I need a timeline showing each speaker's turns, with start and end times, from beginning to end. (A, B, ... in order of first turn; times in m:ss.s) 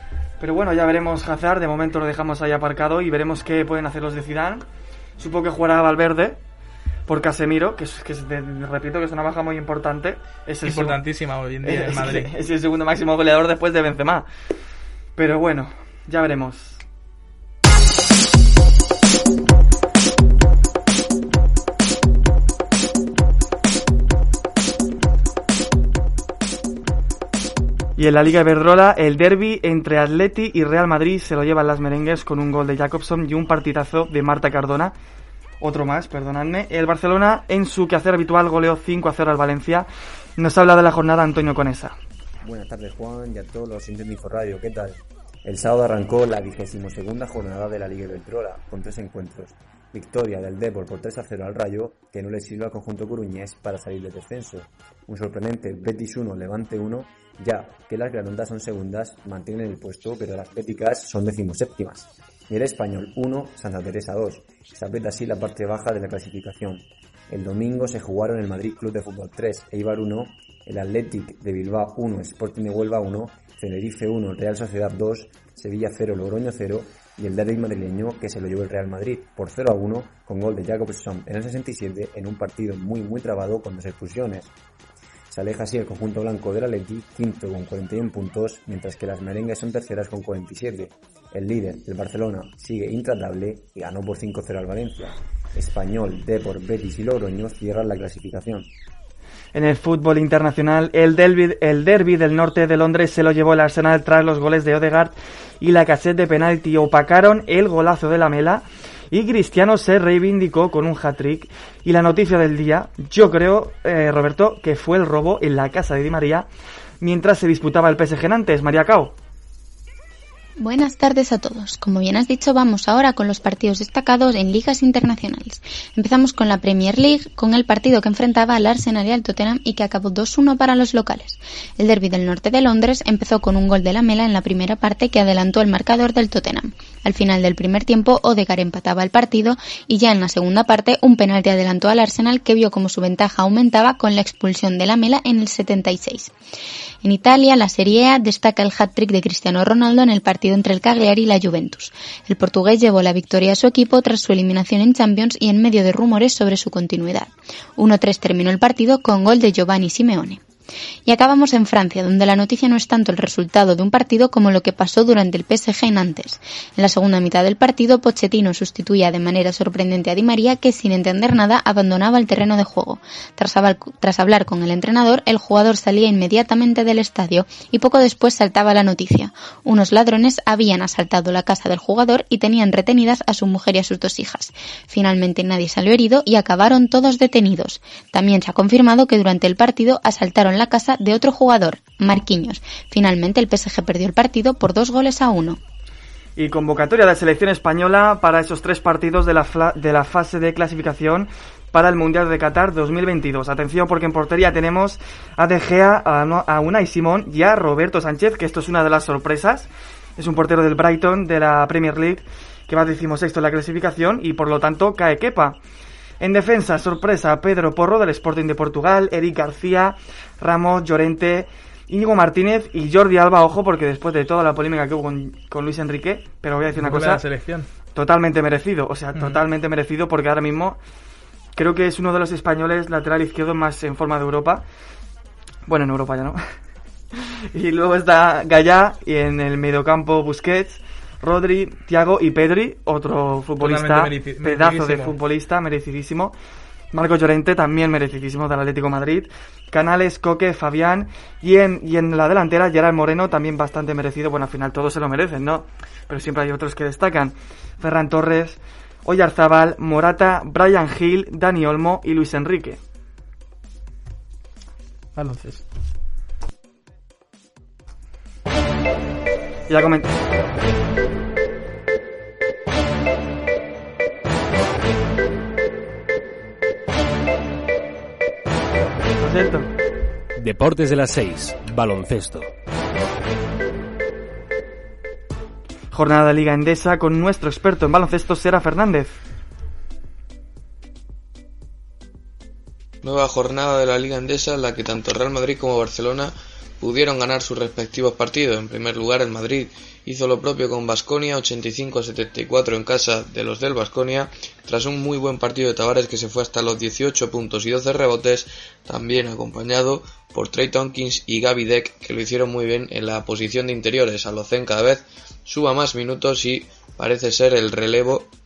0:00.4-0:04.6 A
0:05.2-0:06.4 A
0:07.1-0:11.0 A
0:10.6-0:12.3 B
0:11.6-0:14.3 A
0:15.2-0:16.8 A
0:28.0-0:34.9 A
0:35.6-0:42.0 A
0:42.4-1:24.5 C
1:25.3-1:38.7 C
1:39.5-1:56.5 A
1:57.0-1:59.1 A
2:00.6-2:26.3 D
2:27.0-2:40.4 D
2:41.0-3:15.6 D
3:16.4-3:35.6 A
3:36.2-3:47.2 A
3:46.8-3:47.7 B
3:47.9-3:50.8 A
3:51.6-3:54.6 A
3:55.7-3:56.4 A
3:57.5-4:06.3 A
4:03.6-4:05.2 B
4:06.9-4:22.8 A
4:25.2-4:25.6 B
4:29.7-4:30.1 A
4:39.2-4:39.7 A
4:40.4-4:42.5 E
4:45.9-4:49.2 A
4:53.0-5:18.3 F